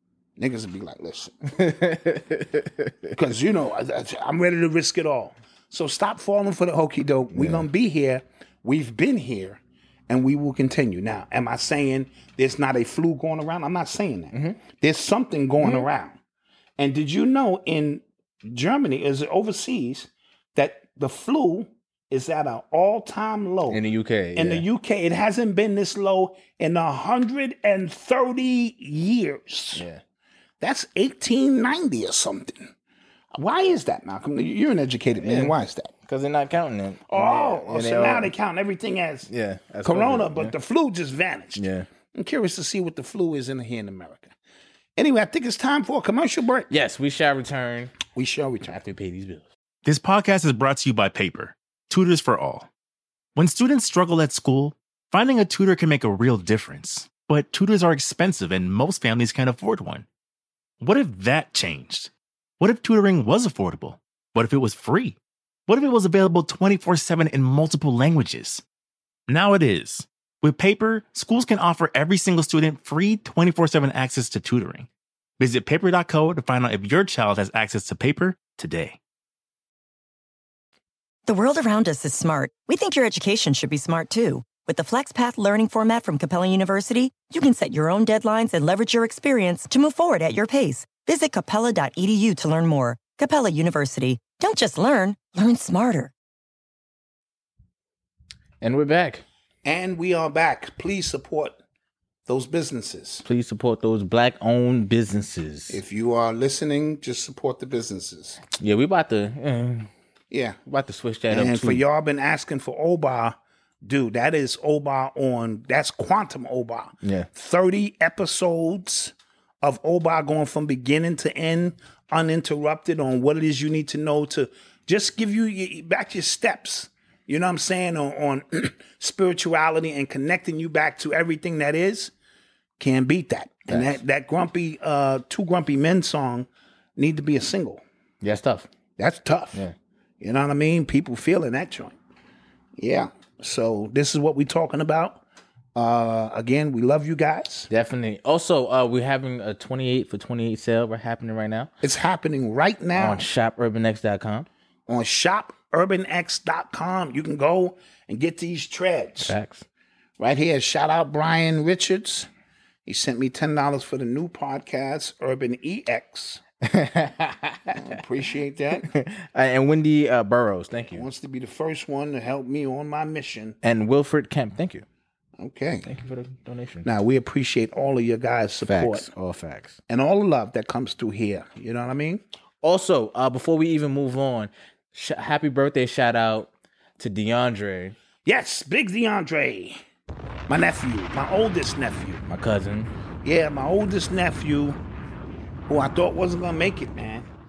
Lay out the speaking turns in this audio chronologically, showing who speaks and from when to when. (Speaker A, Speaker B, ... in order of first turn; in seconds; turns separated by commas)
Speaker A: 0.4-1.5, Speaker B: 1.6-3.1, Speaker A: 3.1-16.2, Speaker B: 7.3-7.7, Speaker B: 14.3-14.6, Speaker B: 15.6-15.9, Speaker A: 16.8-23.8, Speaker B: 23.7-24.6, Speaker A: 24.4-29.8, Speaker B: 29.7-30.0, Speaker A: 30.6-32.7, Speaker A: 33.3-35.9, Speaker B: 35.2-35.5, Speaker B: 36.0-38.3, Speaker A: 37.1-39.3, Speaker B: 39.3-40.5, Speaker A: 39.8-44.3, Speaker B: 41.5-41.9, Speaker A: 45.0-46.7, Speaker B: 46.7-48.0, Speaker A: 48.1-48.8, Speaker B: 48.7-49.5, Speaker C: 49.8-52.7, Speaker C: 53.3-60.0, Speaker C: 60.8-68.6, Speaker C: 69.3-74.9, Speaker C: 75.4-79.0, Speaker D: 81.2-96.1, Speaker B: 98.6-99.2, Speaker A: 99.6-101.6, Speaker A: 102.3-103.2, Speaker B: 103.2-105.8, Speaker A: 105.7-108.4, Speaker B: 108.6-109.9, Speaker A: 110.3-110.6, Speaker B: 110.7-111.8, Speaker A: 111.3-132.1, Speaker B: 117.0-117.3, Speaker A: 132.8-137.8, Speaker B: 133.7-134.0, Speaker B: 138.2-138.7, Speaker A: 139.0-139.6, Speaker A: 140.2-141.9, Speaker A: 142.8-145.2, Speaker A: 145.7-147.7, Speaker B: 147.7-151.7, Speaker A: 151.8-153.2, Speaker B: 152.9-154.5, Speaker A: 154.9-159.3, Speaker B: 159.2-159.6, Speaker A: 160.2-162.3, Speaker A: 162.8-166.4, Speaker B: 166.6-167.9, Speaker A: 167.7-168.9, Speaker B: 168.8-171.1, Speaker A: 170.9-173.6, Speaker B: 173.6-174.8, Speaker A: 175.4-175.9, Speaker B: 175.8-176.8, Speaker A: 176.8-179.1, Speaker B: 178.7-179.8, Speaker A: 179.9-182.2, Speaker B: 182.6-187.9, Speaker A: 188.2-189.8, Speaker A: 190.5-192.2, Speaker B: 192.3-192.9, Speaker A: 193.2-194.8, Speaker A: 195.7-197.3